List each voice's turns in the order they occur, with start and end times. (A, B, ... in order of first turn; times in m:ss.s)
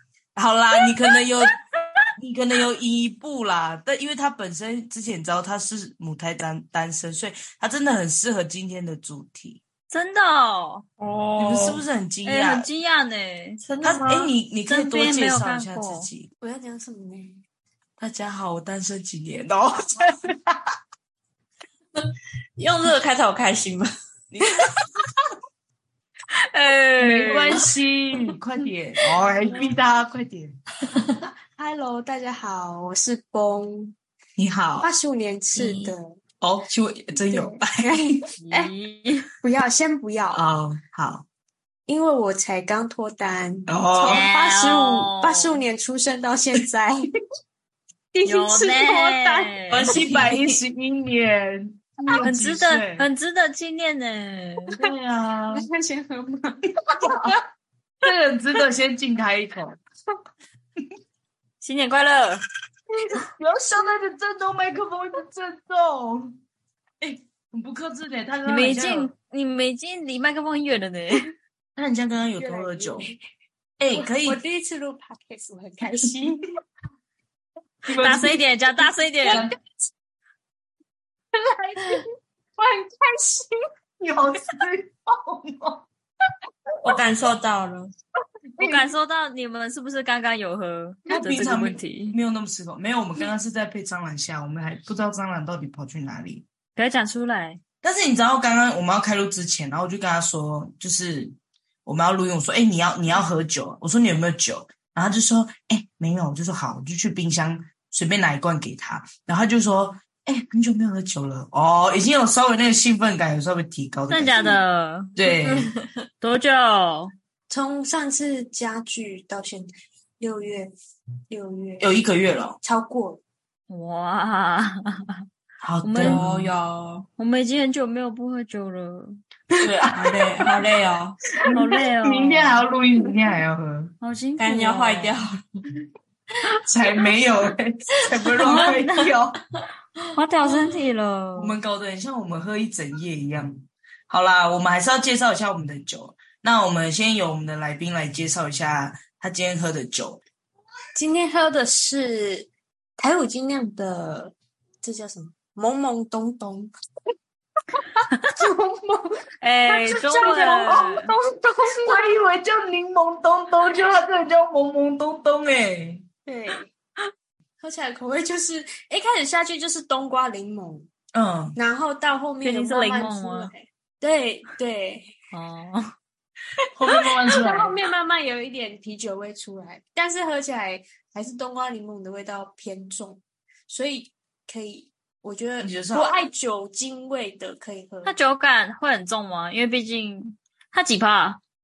0:00.4-0:01.6 A
0:02.2-0:09.6 A
0:09.9-0:10.8 B
0:11.0-0:11.8 C
0:11.4-0:12.7 A
0:12.2-0:13.6 B
0:13.6-0:14.3 C
0:13.8-0:16.3 A
0:14.7-0:16.1 B
0:16.4-0:17.4 D
0:18.0-0:20.6 A
0:22.0-0:23.9 C
0:24.3-0:24.8 A
0:26.4-0:27.7 B
0:27.0-0:30.6 A
0:29.3-0:29.8 D
0:31.2-0:34.0 D
0:34.4-0:34.9 A
0:34.8-0:36.2 D
0:35.6-0:35.9 C
0:36.4-0:38.2 A
0:37.3-0:38.7 D
0:38.4-0:39.3 B
0:39.4-0:40.4 D
0:40.3-0:41.3 A
0:41.9-0:47.1 D
0:43.7-0:44.2 A
0:44.1-0:45.6 B
0:48.1-0:49.6 D
0:48.2-0:49.9 B
0:49.7-0:50.6 C
0:49.8-0:53.1 A
0:52.2-0:54.7 B
0:54.7-0:55.7 A
0:55.5-0:57.4 D
0:57.0-0:57.4 A
0:58.0-0:59.8 A
1:01.6-1:02.4 B
1:03.3-1:06.4 A
1:07.0-1:09.1 A
1:08.5-1:11.3 B
1:11.8-1:13.1 A
1:12.4-1:13.2 D
1:13.8-1:14.4 A
1:13.9-1:16.4 D
1:17.8-1:18.4 A
1:17.9-1:19.5 B
1:19.2-1:19.6 A
1:21.4-1:22.1 D
1:22.6-1:23.6 D
1:24.0-1:25.8 A
1:26.8-1:27.9 C
1:28.6-1:32.2 B
1:31.1-1:36.4 A
1:36.8-1:37.6 B
1:37.8-1:54.6 A
1:54.1-1:55.2 B
1:55.2-1:55.7 A
1:55.3-1:55.9 C
1:56.2-1:57.1 B
1:57.5-2:00.7 D
2:01.3-2:01.9 D
2:01.8-2:02.6 A
2:02.6-2:03.2 D
2:03.7-2:05.2 B
2:05.6-2:06.5 A
2:05.8-2:06.2 B
2:06.0-2:07.1 C
2:07.2-2:09.2 B
2:09.6-2:10.4 A
2:09.9-2:11.2 C
2:11.4-2:13.9 A
2:11.5-2:12.6 B
2:14.0-2:15.2 B
2:14.4-2:15.4 C
2:16.7-2:19.4 A
2:18.4-2:18.8 C
2:18.4-2:19.0 B
2:20.1-2:21.6 B
2:20.4-2:20.8 C
2:21.4-2:30.2 A
2:31.0-2:36.7 D
2:38.4-2:42.1 D
2:39.4-2:41.1 B
2:40.2-2:40.9 A
2:41.9-2:46.0 A
2:46.3-2:46.7 D
2:47.6-2:50.9 D
2:51.1-2:51.6 A
2:51.6-2:55.2 D
2:52.4-2:53.5 B
2:55.3-2:55.9 B
2:56.7-2:57.8 A
2:57.2-3:08.2 D
3:05.6-3:06.2 A
3:08.0-3:11.4 B